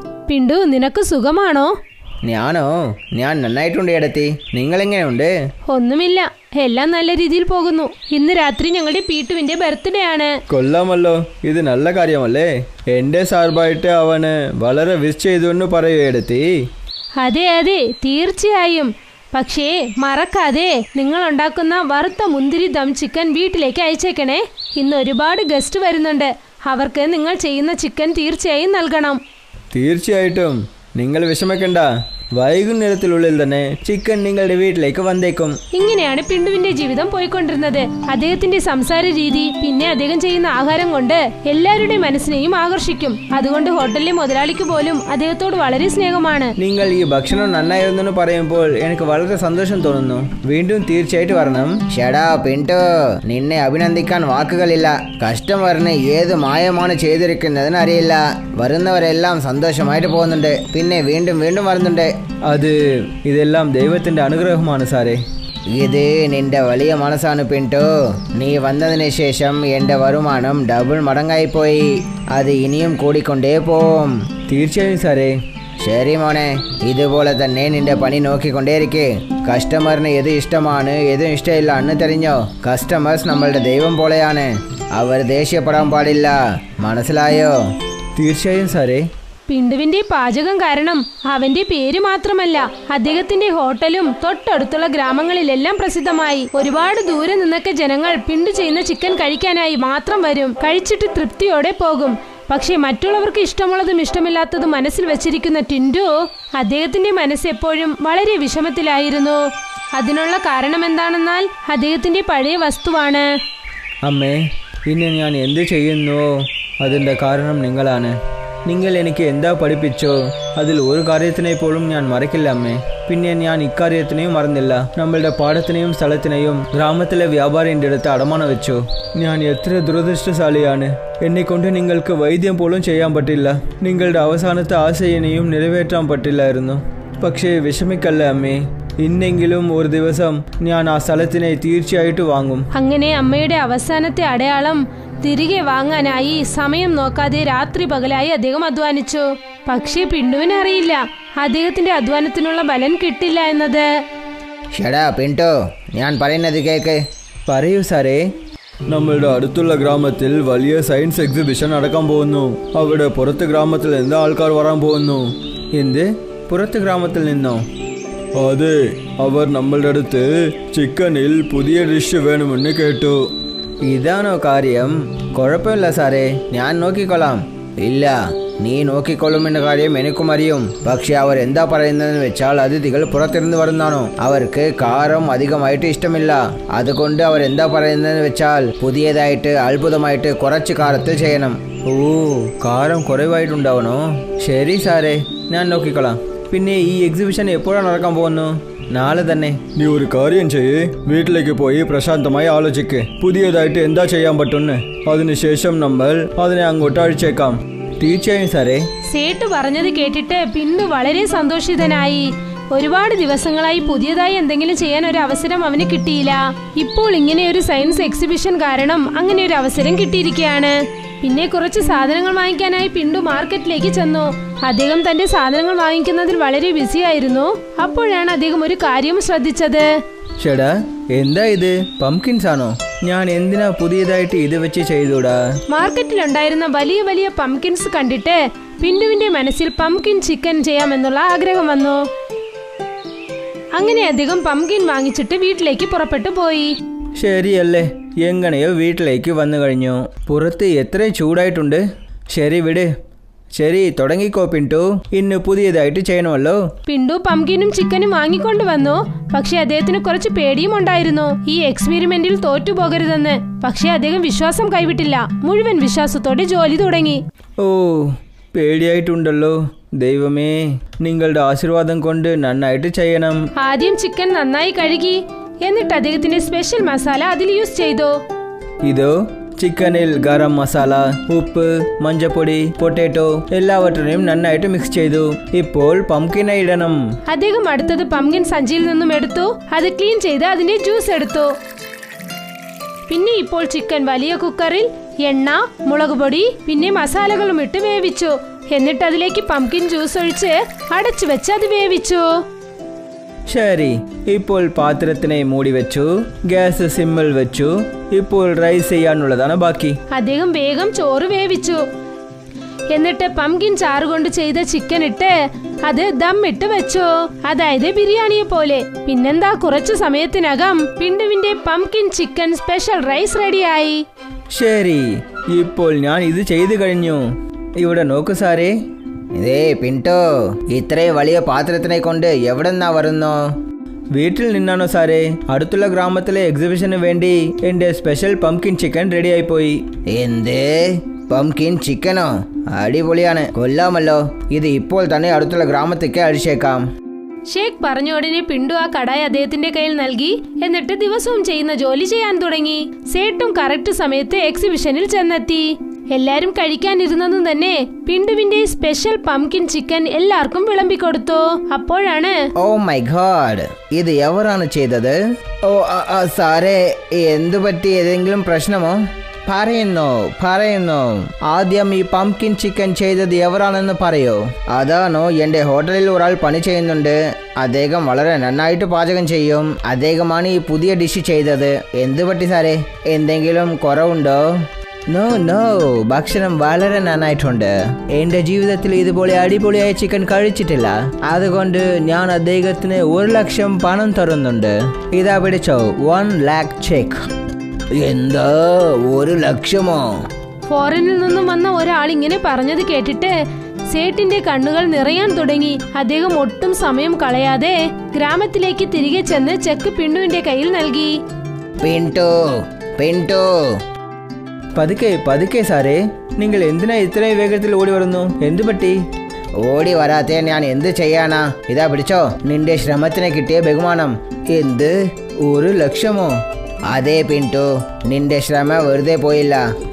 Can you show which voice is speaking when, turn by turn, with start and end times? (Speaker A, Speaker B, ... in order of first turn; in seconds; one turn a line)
Speaker A: 0.3-1.7
Speaker B: 2.2-5.5
Speaker A: 5.7-10.3
Speaker C: 10.5-16.5
Speaker A: 17.2-29.2
Speaker C: 29.7-35.6
Speaker A: 35.7-46.5
Speaker C: 46.6-51.8
Speaker B: 51.7-62.1
Speaker C: 62.5-65.2
Speaker B: 65.7-74.2
Speaker C: 74.5-75.3
Speaker B: 75.8-87.6
Speaker C: 88.2-89.0
Speaker A: 89.5-113.3
Speaker C: 114.0-142.7
Speaker A: 142.7-153.9
Speaker B: 154.8-157.0
Speaker C: 157.5-158.2
Speaker C: 158.9-167.6
Speaker C: 168.4-173.3
Speaker B: 173.9-191.9
Speaker C: 191.9-198.5
Speaker B: 193.5-195.9
Speaker B: 197.6-199.6
Speaker C: 199.6-208.9
Speaker A: 209.1-229.9
Speaker C: 230.4-235.4
Speaker A: 235.7-242.1
Speaker A: 243.8-246.7
Speaker C: 247.2-252.9
Speaker C: 253.6-256.6
Speaker A: 256.9-267.2
Speaker C: 267.6-273.4
Speaker A: 273.6-278.2
Speaker C: 278.8-287.0
Speaker A: 287.3-291.6
Speaker A: 293.1-302.4
Speaker C: 303.5-310.0
Speaker A: 310.1-311.8
Speaker A: 312.9-315.3
Speaker A: 315.8-324.0
Speaker C: 324.5-328.7
Speaker B: 329.4-333.5
Speaker C: 334.1-339.9
Speaker B: 340.1-346.9
Speaker A: 347.5-362.4
Speaker B: 362.6-397.3
Speaker B: 397.9-400.1
Speaker A: 400.7-403.3
Speaker A: 403.9-411.1
Speaker B: 411.8-413.8
Speaker C: 414.8-419.0
Speaker B: 419.6-429.6